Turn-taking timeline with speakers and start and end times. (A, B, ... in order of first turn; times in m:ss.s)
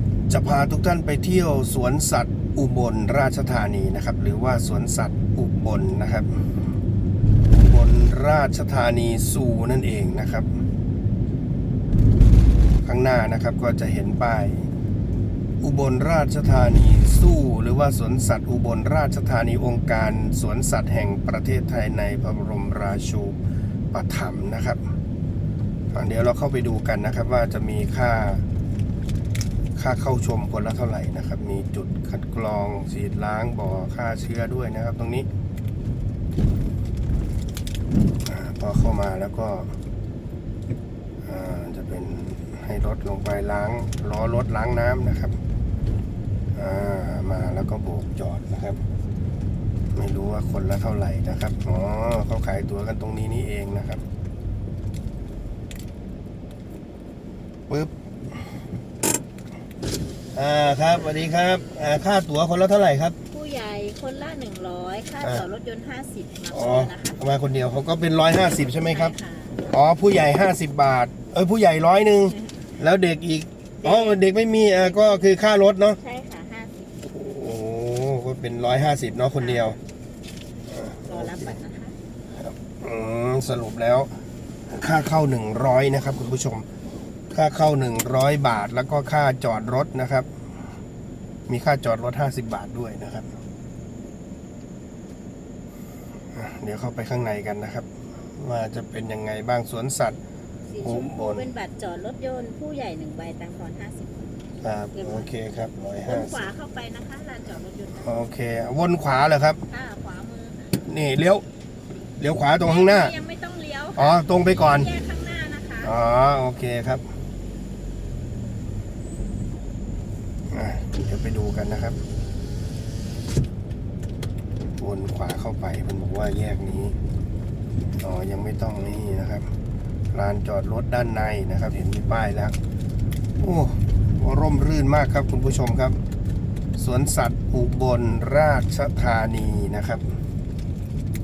0:00.3-0:06.4 A
0:07.5-0:10.6 A
0:12.8-0:14.7 A
0:15.6-0:23.4 A
0:23.9-0:24.8 A
0:25.9-0:28.4 A
0:29.8-0:35.3 A
0:38.2-0:39.7 A
0:41.3-0:45.4 A
0:46.6-0:48.8 A
0:50.0-0:54.0 A
1:00.3-1:03.2 A
1:03.3-1:07.2 B
1:06.5-1:16.0 A
1:08.8-1:09.6 B
1:13.8-1:14.2 B
1:14.7-1:17.0 B
1:17.0-1:19.8 A
1:19.4-1:19.8 B
1:20.7-1:21.6 A
1:21.1-1:22.0 B
1:22.4-1:24.1 A
1:24.7-1:26.7 A
1:27.3-1:30.3 A
1:31.5-1:33.3 A
1:36.3-1:40.2 A
1:40.7-1:44.3 B
1:40.8-1:41.5 A
1:44.6-1:46.5 A
1:44.9-1:45.3 B
1:46.1-1:48.3 B
1:48.0-1:49.6 A
1:49.7-1:50.8 B
1:50.8-1:51.4 A
1:52.2-1:53.1 A
1:52.6-1:55.9 B
1:54.0-1:54.9 A
1:55.8-1:57.0 A
2:00.5-2:02.0 A
2:04.8-2:07.0 A
2:08.0-2:09.5 A
2:10.1-2:12.6 A
2:13.4-2:16.0 A
2:16.8-2:20.0 A